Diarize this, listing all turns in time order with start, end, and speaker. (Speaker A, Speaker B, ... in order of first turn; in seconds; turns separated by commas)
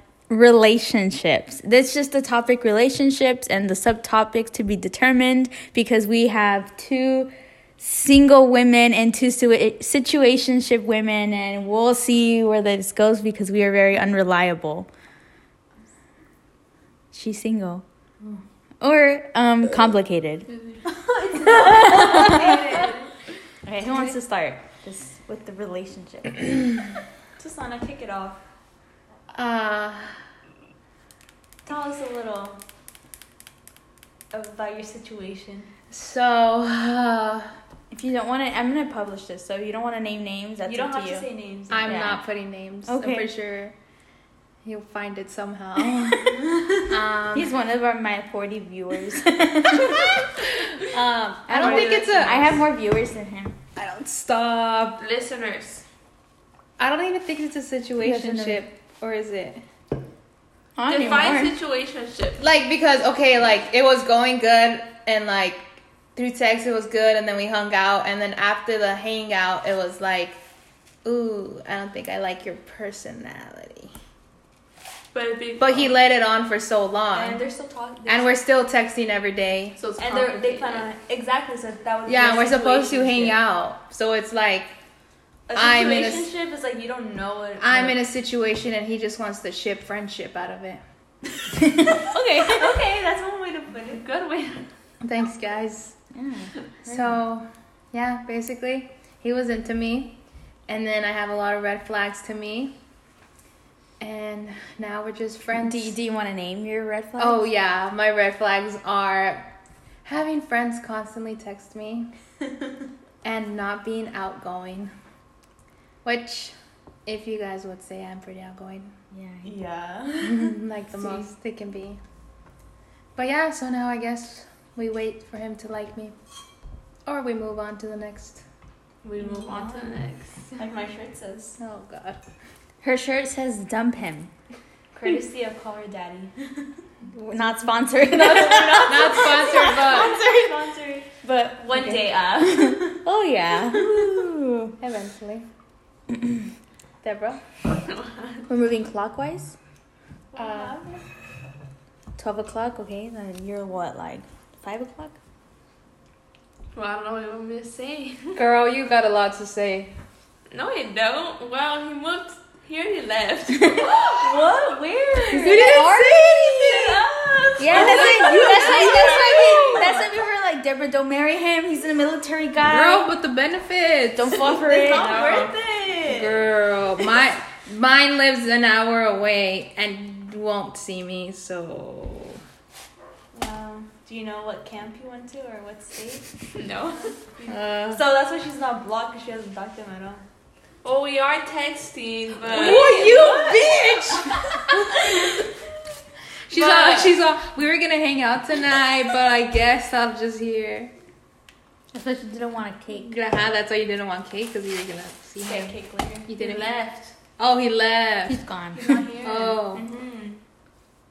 Speaker A: 0.3-14.9, Speaker A: 17.1-17.8, Speaker A: 18.8-20.5, Speaker B: 20.5-20.9, Speaker C: 20.9-23.1, Speaker A: 21.5-22.6, Speaker A: 23.6-26.5, Speaker C: 27.4-28.4, Speaker D: 29.3-30.2, Speaker C: 31.7-32.6, Speaker C: 34.3-35.7, Speaker D: 35.9-37.5, Speaker A: 37.9-41.3, Speaker C: 40.7-42.0, Speaker D: 41.7-43.8, Speaker A: 41.9-42.2, Speaker A: 42.9-43.3, Speaker D: 44.6-47.5, Speaker C: 46.2-46.8, Speaker A: 47.3-50.2, Speaker D: 49.7-52.6, Speaker A: 51.5-53.5, Speaker B: 51.5-52.5, Speaker D: 53.8-55.0, Speaker B: 55.0-55.9, Speaker D: 56.8-59.6, Speaker A: 58.0-58.6, Speaker A: 60.8-61.5, Speaker B: 60.9-62.4, Speaker D: 62.4-70.4, Speaker D: 71.0-73.9, Speaker B: 75.1-76.0, Speaker D: 75.6-77.4, Speaker C: 77.1-78.3, Speaker D: 78.1-79.8, Speaker B: 79.8-80.9, Speaker C: 80.0-83.4, Speaker D: 82.1-84.7, Speaker C: 85.5-88.0, Speaker D: 85.6-86.3, Speaker D: 87.6-90.8, Speaker A: 91.7-92.8, Speaker C: 92.4-94.0, Speaker B: 93.9-94.7, Speaker D: 95.0-96.0, Speaker A: 96.1-97.2, Speaker D: 96.9-100.1, Speaker D: 100.7-102.7, Speaker D: 104.0-105.9, Speaker A: 105.6-107.5, Speaker D: 107.2-109.4, Speaker D: 110.0-112.1, Speaker D: 113.2-114.9, Speaker D: 116.0-116.5, Speaker D: 117.1-118.9, Speaker A: 119.1-119.5, Speaker C: 119.5-121.3, Speaker D: 120.2-122.0, Speaker D: 123.2-126.2, Speaker D: 127.1-128.4, Speaker B: 129.0-130.7, Speaker C: 129.2-130.0, Speaker C: 130.6-131.6, Speaker D: 131.6-132.2, Speaker A: 132.8-134.3, Speaker C: 134.9-136.7, Speaker A: 137.1-139.3, Speaker C: 138.1-143.1, Speaker D: 138.8-140.2, Speaker A: 141.3-144.8, Speaker C: 143.7-144.2, Speaker D: 144.8-145.5, Speaker D: 147.0-147.4, Speaker B: 147.7-148.5, Speaker A: 148.5-149.6, Speaker C: 150.3-151.0, Speaker D: 150.4-150.7, Speaker A: 152.2-155.2, Speaker B: 156.7-158.4, Speaker D: 158.4-159.9, Speaker B: 160.5-164.5, Speaker A: 163.6-163.9, Speaker C: 163.8-170.0, Speaker D: 165.3-166.6, Speaker A: 165.3-166.9, Speaker A: 167.6-173.1, Speaker B: 167.7-169.1, Speaker D: 167.8-170.1, Speaker D: 172.6-174.4, Speaker A: 174.1-175.3, Speaker C: 174.4-176.5, Speaker B: 174.8-175.6, Speaker D: 176.1-182.4, Speaker C: 183.3-186.3, Speaker B: 186.5-187.2, Speaker C: 186.9-190.2, Speaker A: 187.5-188.0, Speaker B: 190.8-193.4, Speaker C: 192.4-195.5, Speaker D: 192.6-194.4, Speaker A: 192.7-193.3, Speaker D: 196.5-200.9, Speaker B: 196.5-197.1, Speaker A: 201.9-203.2, Speaker D: 202.9-206.7, Speaker C: 205.4-206.3, Speaker B: 206.4-207.1, Speaker D: 207.4-208.4, Speaker A: 208.3-209.1, Speaker B: 208.8-209.6, Speaker C: 208.8-210.4, Speaker D: 209.2-209.8